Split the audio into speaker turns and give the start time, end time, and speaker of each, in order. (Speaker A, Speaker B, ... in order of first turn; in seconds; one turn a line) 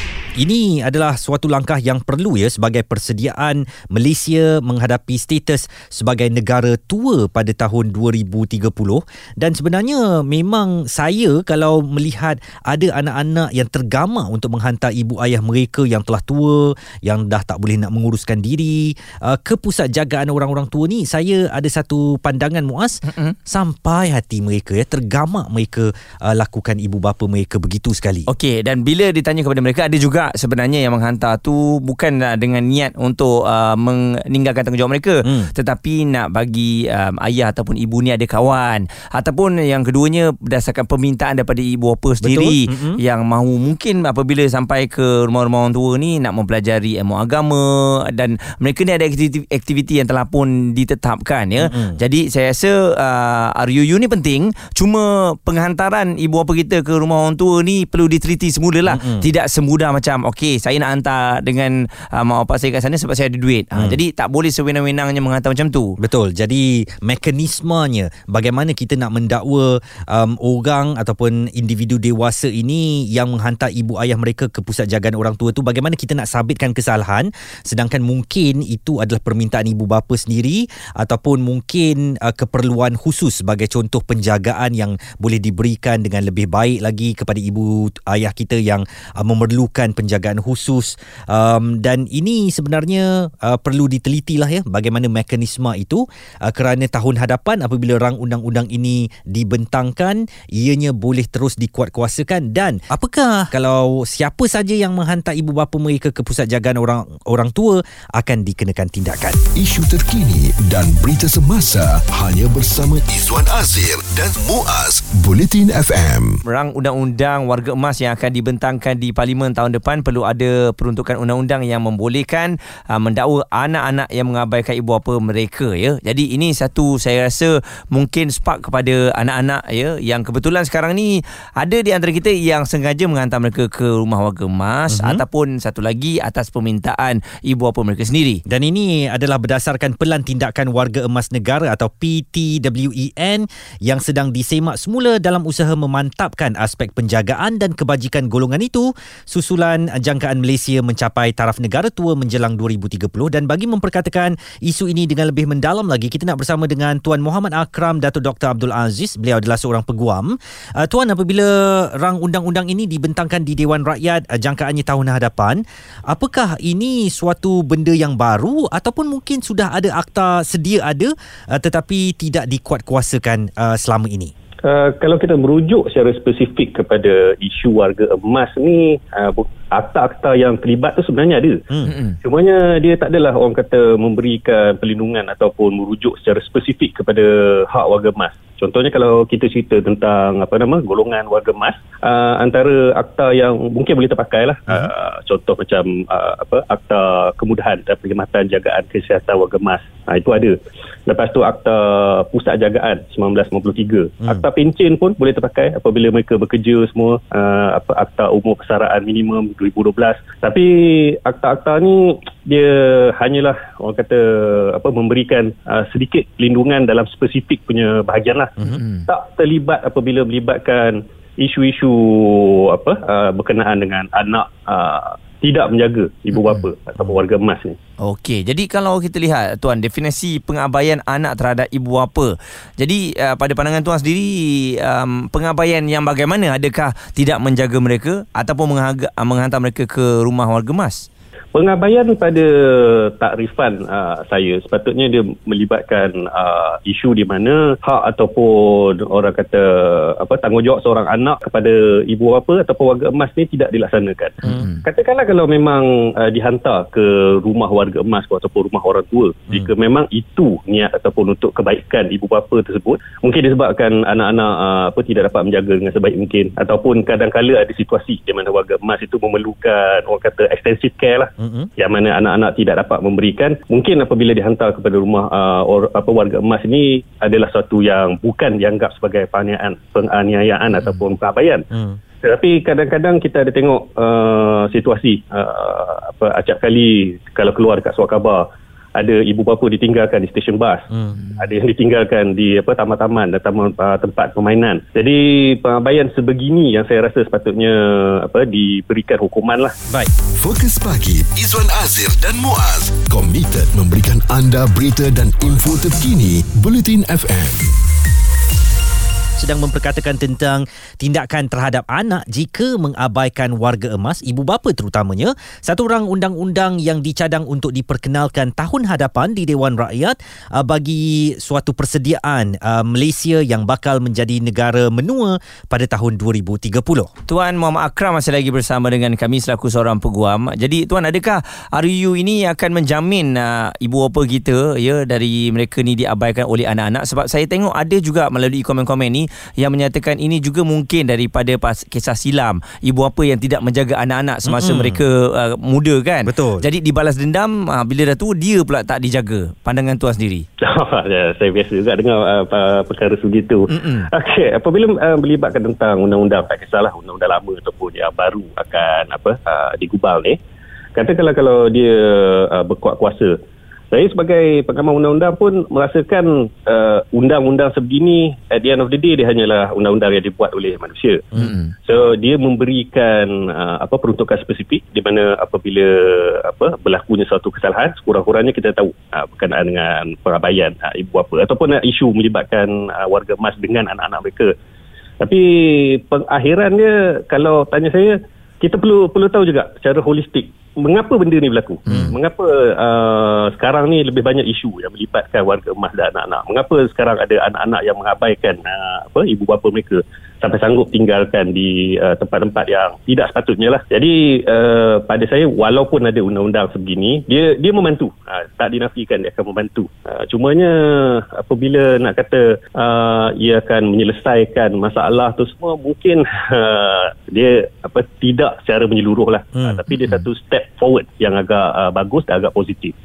Speaker A: 0.4-28.3
Speaker B: 23.1-23.4
Speaker B: 28.3-65.9
Speaker A: 35.2-35.5
Speaker A: 42.2-43.0
Speaker A: 51.6-52.0
Speaker A: 58.9-59.2
Speaker A: 66.0-109.4
Speaker C: 109.5-116.4
Speaker B: 116.5-138.4
Speaker A: 134.9-135.2
Speaker A: 138.5-174.3
Speaker D: 174.6-181.6
Speaker B: 181.8-182.2
Speaker D: 182.2-200.6
Speaker D: 201.1-218.6
Speaker B: 218.7-219.1
Speaker D: 219.1-227.8
Speaker B: 226.3-227.1
Speaker B: 228.0-241.0
Speaker D: 241.5-281.6
Speaker B: 254.4-254.8
Speaker A: 271.4-271.7
Speaker A: 281.7-282.0
Speaker D: 282.2-288.4
Speaker D: 288.9-299.7
Speaker C: 300.3-307.8
Speaker A: 309.4-327.1
Speaker B: 327.3-350.4
Speaker A: 344.4-345.0
Speaker A: 346.2-346.6
Speaker D: 350.6-360.4
Speaker B: 353.7-354.1
Speaker D: 360.9-363.3
Speaker D: 363.9-371.2
Speaker B: 371.3-371.7
Speaker D: 371.8-384.5
Speaker D: 385.2-422.9